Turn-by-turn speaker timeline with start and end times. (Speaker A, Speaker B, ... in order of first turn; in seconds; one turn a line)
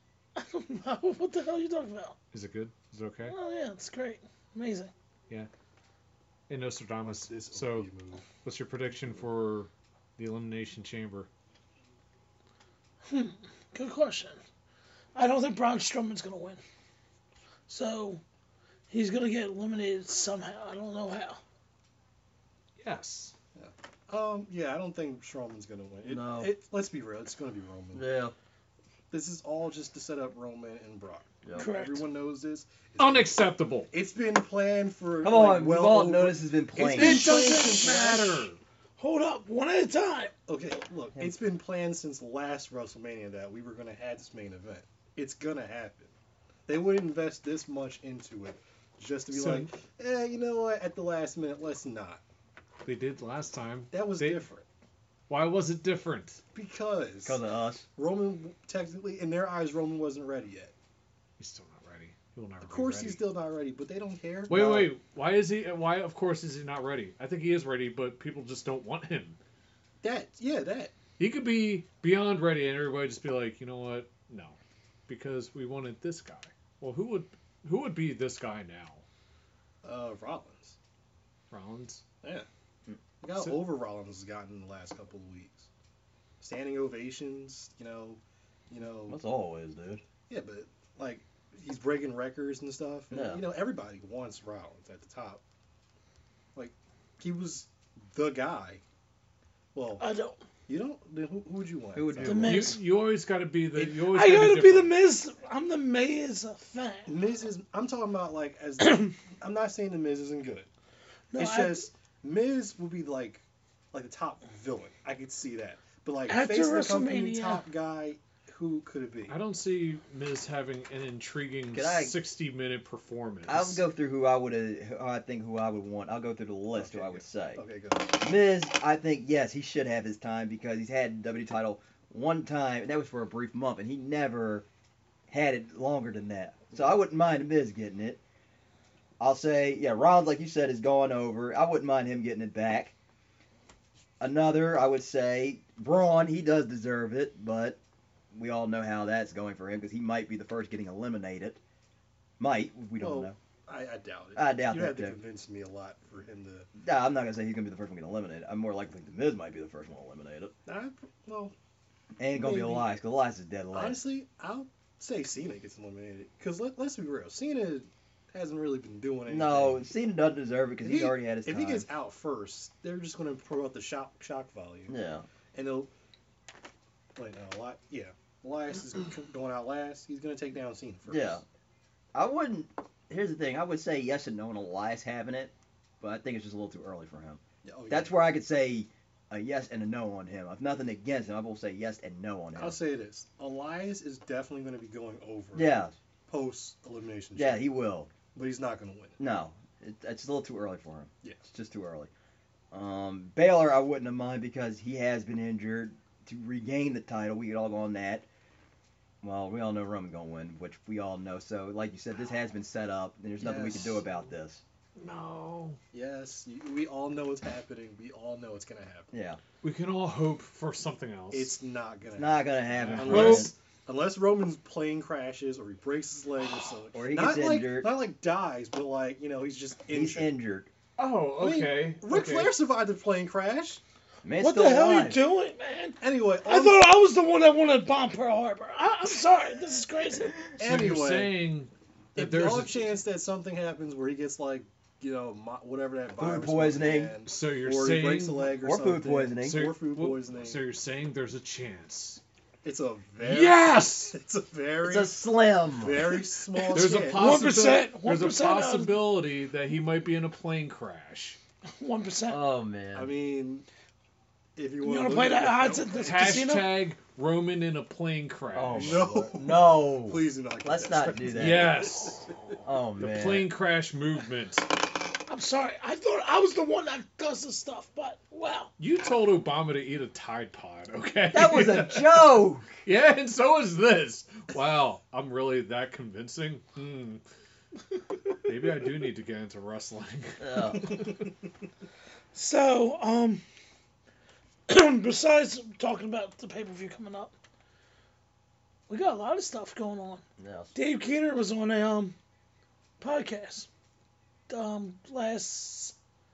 Speaker A: 0.3-2.1
Speaker B: 2.3-3.3
Speaker A: 3.2-4.9
Speaker B: 6.5-11.3
Speaker C: 7.0-8.2
Speaker A: 13.1-14.4
Speaker A: 15.1-16.6
Speaker A: 17.7-18.2
Speaker A: 18.9-21.4
Speaker B: 22.8-23.3
Speaker C: 23.5-28.1
Speaker D: 26.0-26.5
Speaker D: 27.9-28.3
Speaker C: 29.1-38.5
Speaker A: 31.5-32.0
Speaker B: 33.0-33.9
Speaker D: 35.2-37.4
Speaker B: 36.9-38.6
Speaker A: 37.5-37.8
Speaker A: 39.0-40.3
Speaker C: 40.5-46.1
Speaker C: 46.7-52.2
Speaker B: 49.3-49.7
Speaker B: 52.8-54.5
Speaker C: 53.9-54.6
Speaker B: 55.3-56.4
Speaker C: 56.5-57.4
Speaker D: 57.2-57.9
Speaker C: 58.0-60.7
Speaker B: 61.4-63.2
Speaker C: 62.6-64.9
Speaker B: 64.5-69.4
Speaker C: 70.0-70.9
Speaker B: 71.2-79.0
Speaker C: 79.8-80.8
Speaker B: 81.5-82.0
Speaker C: 83.2-85.7
Speaker B: 83.3-83.7
Speaker C: 86.4-89.2
Speaker D: 89.1-90.0
Speaker C: 90.3-95.4
Speaker D: 93.1-93.4
Speaker C: 96.5-98.8
Speaker C: 99.7-100.0
Speaker A: 100.0-100.4
Speaker C: 100.7-102.7
Speaker D: 101.9-102.8
Speaker A: 102.2-102.8
Speaker B: 102.5-104.9
Speaker A: 103.9-107.1
Speaker C: 107.0-110.7
Speaker A: 108.8-109.1
Speaker A: 111.3-111.9
Speaker C: 111.3-119.4
Speaker A: 116.3-117.6
Speaker B: 119.3-123.8
Speaker D: 121.7-122.2
Speaker D: 123.5-127.6
Speaker C: 126.7-128.1
Speaker D: 128.2-134.7
Speaker D: 135.3-138.2
Speaker D: 139.2-142.9
Speaker D: 144.2-147.8
Speaker D: 148.3-151.6
Speaker D: 152.4-153.3
Speaker C: 153.0-156.7
Speaker D: 154.3-155.2
Speaker D: 156.8-160.5
Speaker C: 160.7-161.5
Speaker D: 162.2-164.0
Speaker C: 162.3-163.0
Speaker C: 163.7-169.8
Speaker D: 169.2-171.9
Speaker C: 170.8-175.0
Speaker D: 174.9-175.2
Speaker C: 175.5-175.9
Speaker C: 177.1-181.4
Speaker D: 181.1-181.4
Speaker D: 182.1-192.8
Speaker C: 187.6-188.2
Speaker C: 192.6-197.7
Speaker D: 195.5-195.9
Speaker D: 197.3-198.1
Speaker C: 198.3-199.2
Speaker D: 199.2-202.1
Speaker D: 202.7-208.2
Speaker D: 209.2-214.6
Speaker C: 213.4-214.0
Speaker B: 215.0-215.8
Speaker C: 215.9-219.1
Speaker D: 219.1-219.4
Speaker B: 219.6-221.6
Speaker C: 221.3-230.3
Speaker D: 222.2-223.5
Speaker B: 222.8-223.5
Speaker D: 226.9-227.9
Speaker D: 229.9-230.7
Speaker B: 231.0-232.5
Speaker C: 231.4-233.8
Speaker D: 234.2-235.2
Speaker A: 234.3-240.4
Speaker C: 236.0-236.9
Speaker C: 240.6-241.4
Speaker B: 240.6-242.8
Speaker C: 242.1-250.6
Speaker D: 246.2-247.2
Speaker B: 247.2-248.5
Speaker D: 248.5-249.7
Speaker B: 249.4-252.2
Speaker C: 252.6-257.5
Speaker B: 253.2-254.2
Speaker D: 254.8-256.1
Speaker A: 256.5-259.0
Speaker B: 256.7-261.4
Speaker A: 261.8-262.4
Speaker D: 262.3-263.1
Speaker C: 262.9-263.7
Speaker C: 264.6-266.5
Speaker A: 264.8-266.8
Speaker B: 266.0-269.3
Speaker D: 268.5-271.8
Speaker C: 268.7-272.2
Speaker B: 271.3-272.4
Speaker D: 272.6-273.5
Speaker B: 272.9-274.7
Speaker A: 275.3-278.7
Speaker B: 278.8-282.3
Speaker D: 281.3-282.8
Speaker B: 282.8-287.2
Speaker B: 288.4-291.1
Speaker D: 290.4-291.0
Speaker A: 292.3-293.4
Speaker A: 294.7-297.3
Speaker A: 298.9-300.2
Speaker D: 300.4-300.7
Speaker A: 300.7-302.1
Speaker A: 303.0-303.7
Speaker A: 304.5-305.9